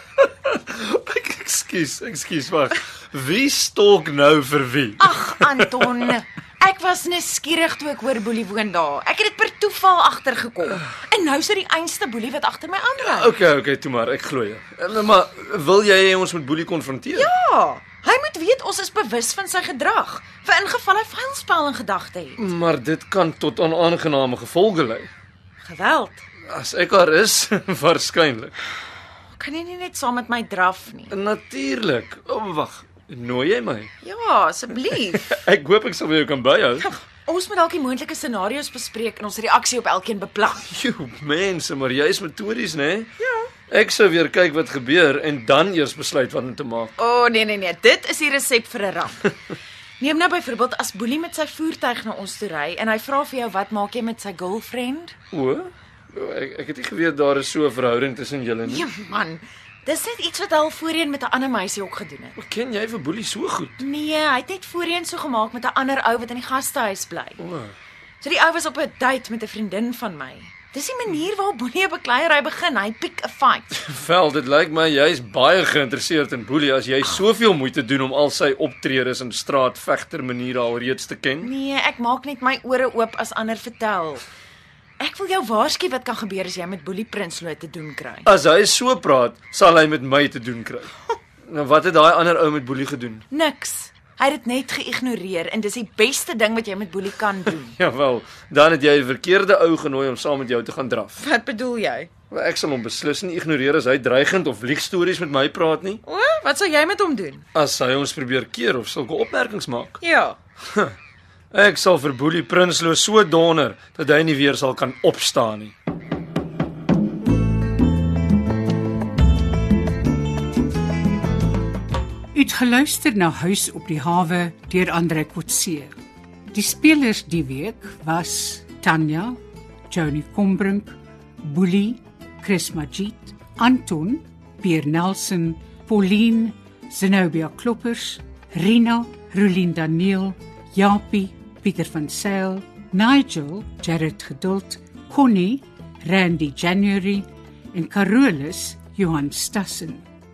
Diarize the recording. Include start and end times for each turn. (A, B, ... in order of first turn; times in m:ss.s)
0:00.4-0:06.1 A
0:05.0-0:13.3 B
0:13.0-0:17.3 A
0:17.2-0:22.4 B
0:22.4-0:25.1 A
0:25.6-0:26.2 B
0:26.5-0:28.6 A
0:29.4-0:31.2 B
0:31.1-0:33.9 A
0:34.0-0:35.3 B
0:34.9-0:36.9 A
0:36.8-0:40.6 B
0:40.7-0:43.1 A
0:43.2-0:43.5 B
0:43.7-0:46.9 A
0:47.0-0:49.3 B
0:50.0-0:55.2 B
0:55.3-0:58.9 A
0:58.6-1:02.3 B
1:02.4-1:03.8 A
1:03.8-1:07.4 B
1:07.4-1:07.7 A
1:08.2-1:13.7 B
1:13.7-1:21.5 A
1:21.4-1:24.2 B
1:25.0-1:28.3 B
1:28.2-1:30.9 A
1:31.5-1:33.2 A
1:33.3-1:37.7 B
1:37.7-1:41.2 A
1:41.2-1:42.1 B
1:42.3-1:46.0 A
1:46.0-1:47.4 B
1:47.5-1:50.0 A
1:50.0-1:50.4 B
1:51.5-1:55.7 A
2:02.3-2:06.0 C
2:06.5-2:09.4 C
2:09.9-2:30.0 C